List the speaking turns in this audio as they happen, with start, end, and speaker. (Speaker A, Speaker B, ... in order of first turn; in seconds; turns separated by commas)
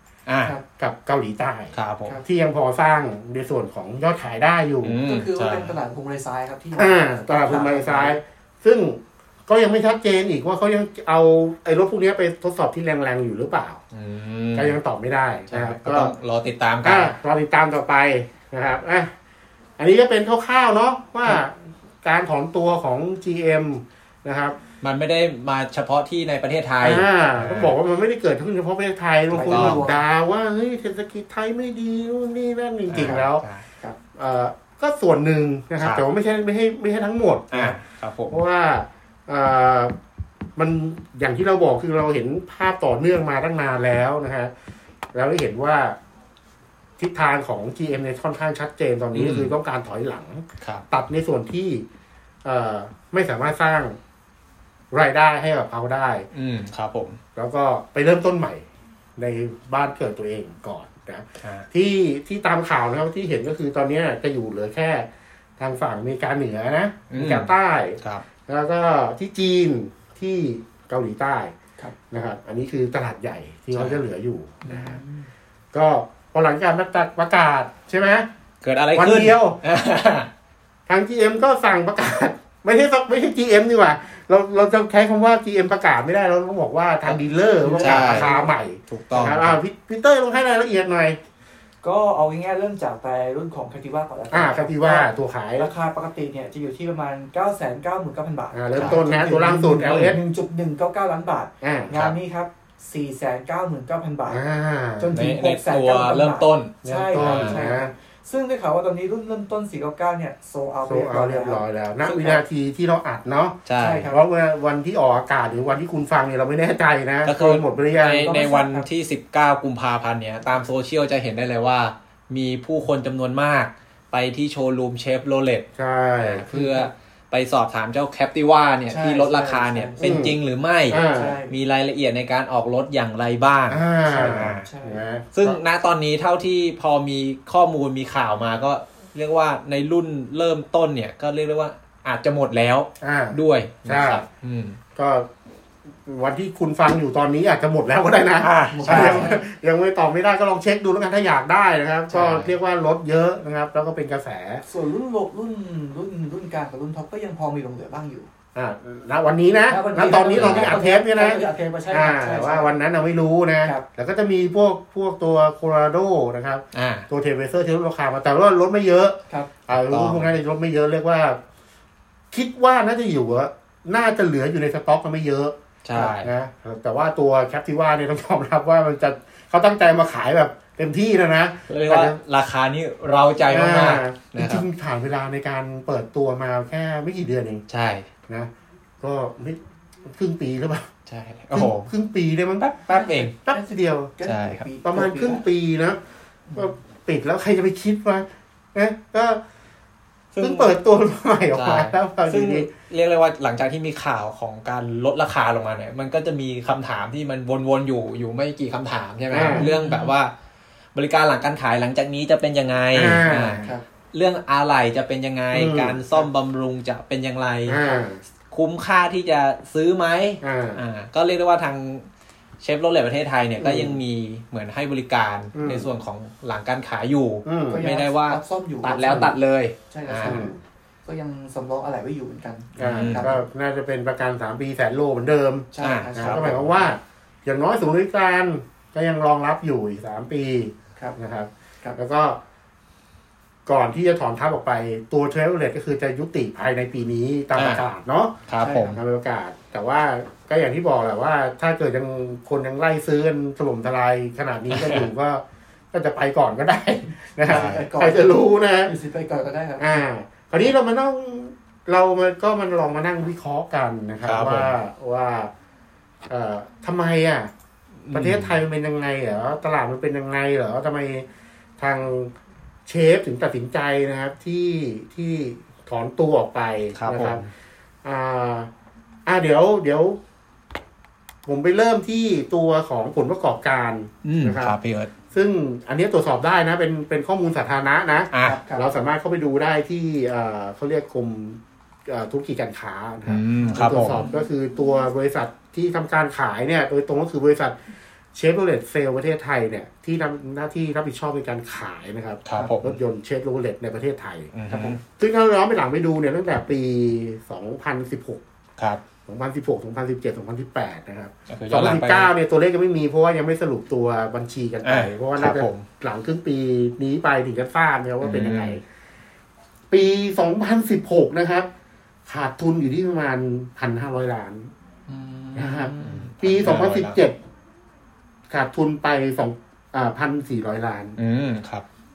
Speaker A: 0.3-0.6, Speaker B: 0.8-5.0, Speaker A: 1.7-2.2, Speaker A: 4.8-5.7, Speaker C: 5.0-8.2, Speaker B: 6.8-13.8, Speaker A: 13.9-14.8, Speaker B: 14.6-16.1, Speaker A: 15.5-17.1, Speaker B: 16.8-19.1, Speaker B: 19.8-24.6, Speaker A: 24.8-27.7, Speaker B: 26.8-33.4, Speaker C: 29.3-30.0, Speaker A: 29.4-29.8, Speaker A: 32.9-33.6, Speaker B: 34.1-37.8, Speaker A: 37.5-38.4, Speaker B: 38.3-40.0, Speaker B: 40.6-44.5, Speaker B: 45.1-46.0, Speaker B: 47.0-51.9, Speaker A: 49.1-49.5, Speaker B: 52.4-54.0, Speaker B: 54.9-56.3, Speaker A: 56.3-57.2, Speaker B: 57.4-58.6, Speaker B: 59.2-71.5, Speaker A: 67.1-68.2, Speaker B: 72.1-75.0, Speaker A: 73.7-74.0, Speaker C: 74.6-75.3, Speaker B: 75.7-78.3, Speaker A: 78.6-80.3, Speaker B: 79.0-79.6, Speaker B: 80.9-91.2, Speaker C: 87.6-88.5, Speaker A: 87.8-88.3, Speaker A: 88.9-89.6, Speaker C: 91.8-104.4, Speaker B: 94.3-95.7, Speaker B: 98.5-100.2, Speaker A: 99.8-100.1, Speaker B: 101.6-101.9, Speaker B: 104.3-105.1, Speaker C: 105.0-112.4, Speaker A: 105.1-107.6, Speaker B: 106.8-107.9, Speaker B: 110.9-118.3, Speaker A: 113.7-114.1, Speaker C: 113.8-114.2, Speaker A: 117.2-125.7, Speaker C: 118.0-118.9, Speaker B: 125.8-126.5, Speaker A: 126.2-134.7, Speaker C: 126.5-126.9, Speaker C: 128.9-130.2, Speaker B: 130.0-130.4, Speaker B: 130.9-131.4, Speaker C: 131.1-131.6, Speaker B: 133.7-135.6, Speaker C: 134.4-135.0, Speaker A: 135.3-144.8, Speaker B: 143.0-144.2, Speaker B: 145.0-145.3, Speaker B: 146.1-154.6, Speaker A: 148.4-149.3, Speaker C: 148.7-149.4, Speaker A: 152.1-152.5, Speaker C: 154.7-158.3, Speaker B: 158.6-171.4, Speaker C: 159.7-162.7, Speaker A: 160.3-160.8, Speaker A: 166.7-167.1, Speaker A: 169.7-170.3, Speaker B: 172.3-182.2, Speaker A: 175.8-176.3, Speaker A: 181.7-184.7, Speaker B: 183.5-187.7, Speaker A: 187.7-188.1, Speaker B: 188.3-190.9, Speaker A: 191.1-191.9, Speaker B: 191.5-194.1, Speaker A: 192.6-193.3, Speaker C: 192.9-195.4, Speaker A: 194.2-194.7, Speaker B: 194.8-196.0, Speaker C: 196.5-196.7, Speaker B: 196.6-199.4, Speaker A: 200.3-200.7, Speaker B: 200.4-202.7, Speaker A: 201.5-210.3, Speaker B: 209.3-209.7, Speaker C: 209.5-210.2, Speaker A: 210.9-217.8, Speaker B: 212.9-213.8, Speaker C: 213.6-213.8, Speaker B: 215.5-216.0, Speaker B: 217.7-218.2, Speaker A: 218.5-222.1, Speaker B: 220.4-220.8, Speaker A: 222.6-230.4, Speaker B: 223.6-224.0, Speaker B: 225.6-225.9, Speaker B: 227.5-227.8, Speaker C: 227.7-229.3, Speaker C: 229.9-233.4, Speaker B: 230.2-230.6, Speaker B: 232.8-242.4, Speaker A: 232.8-233.3, Speaker C: 235.7-236.6, Speaker A: 235.8-236.7, Speaker B: 243.7-248.4, Speaker A: 247.6-247.8, Speaker A: 248.5-249.0, Speaker C: 248.6-249.0, Speaker B: 248.9-258.9, Speaker A: 254.7-255.1, Speaker C: 257.4-260.0, Speaker A: 257.5-257.9, Speaker B: 259.8-265.5, Speaker A: 264.2-264.7, Speaker B: 266.3-267.5, Speaker A: 268.1-268.6, Speaker B: 268.1-271.3, Speaker B: 271.8-272.3, Speaker B: 272.9-277.4, Speaker A: 276.9-277.5, Speaker B: 278.0-278.7, Speaker B: 279.3-280.2, Speaker B: 281.4-284.8, Speaker A: 284.2-285.1, Speaker B: 285.3-297.8, Speaker A: 288.3-288.6, Speaker C: 288.4-288.9, Speaker A: 293.3-294.2, Speaker C: 293.6-294.4, Speaker B: 298.3-304.5, Speaker A: 302.4-303.0, Speaker A: 304.5-305.0, Speaker C: 304.7-305.0, Speaker B: 305.2-308.4, Speaker B: 309.3-318.8, Speaker A: 311.5-312.3, Speaker A: 314.9-315.9, Speaker A: 318.2-318.8, Speaker B: 319.9-321.7, Speaker B: 322.3-324.7, Speaker C: 325.1-326.3, Speaker B: 325.6-327.4, Speaker A: 326.0-327.2, Speaker B: 328.5-331.2, Speaker A: 331.2-331.9